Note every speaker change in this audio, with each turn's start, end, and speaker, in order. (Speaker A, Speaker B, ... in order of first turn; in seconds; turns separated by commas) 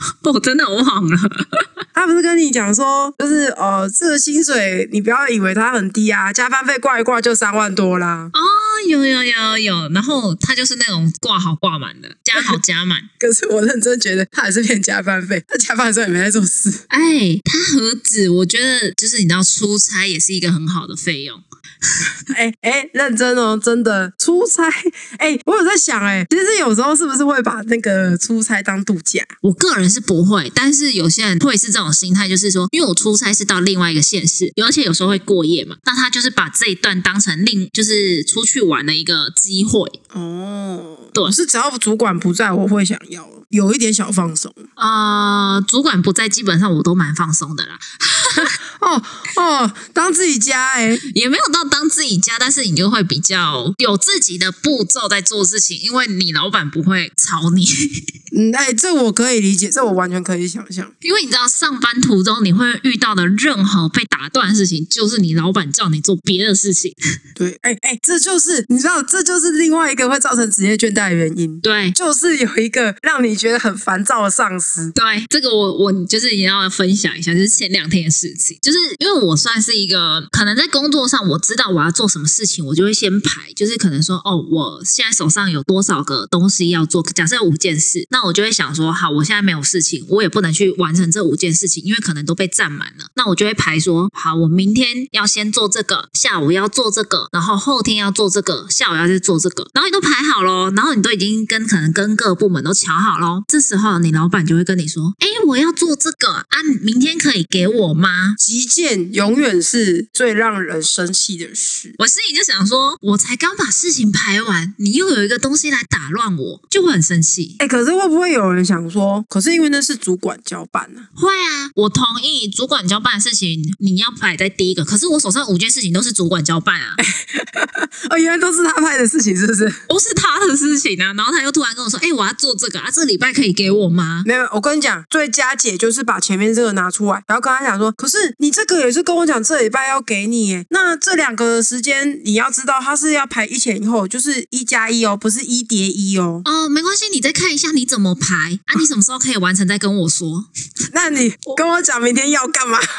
Speaker A: 0.2-1.7, Speaker B: 1.9-8.3, Speaker A: 8.3-13.1, Speaker B: 13.2-16.8, Speaker A: 16.9-22.1, Speaker B: 22.3-29.3, Speaker A: 29.4-40.0, Speaker B: 40.1-44.6, Speaker A: 44.8-48.5, Speaker B: 48.4-51.0, Speaker A: 51.1-58.0, Speaker B: 58.3-60.9, Speaker A: 61.0-67.0, Speaker B: 67.4-74.9, Speaker A: 71.6-72.0, Speaker A: 74.9-108.4, Speaker B: 108.4-112.0, Speaker A: 112.0-117.6, Speaker B: 117.6-121.1, Speaker A: 121.2-127.0, Speaker B: 127.0-129.8, Speaker A: 129.9-134.3, Speaker B: 134.2-146.4, Speaker A: 146.4-150.5, Speaker B: 150.9-152.8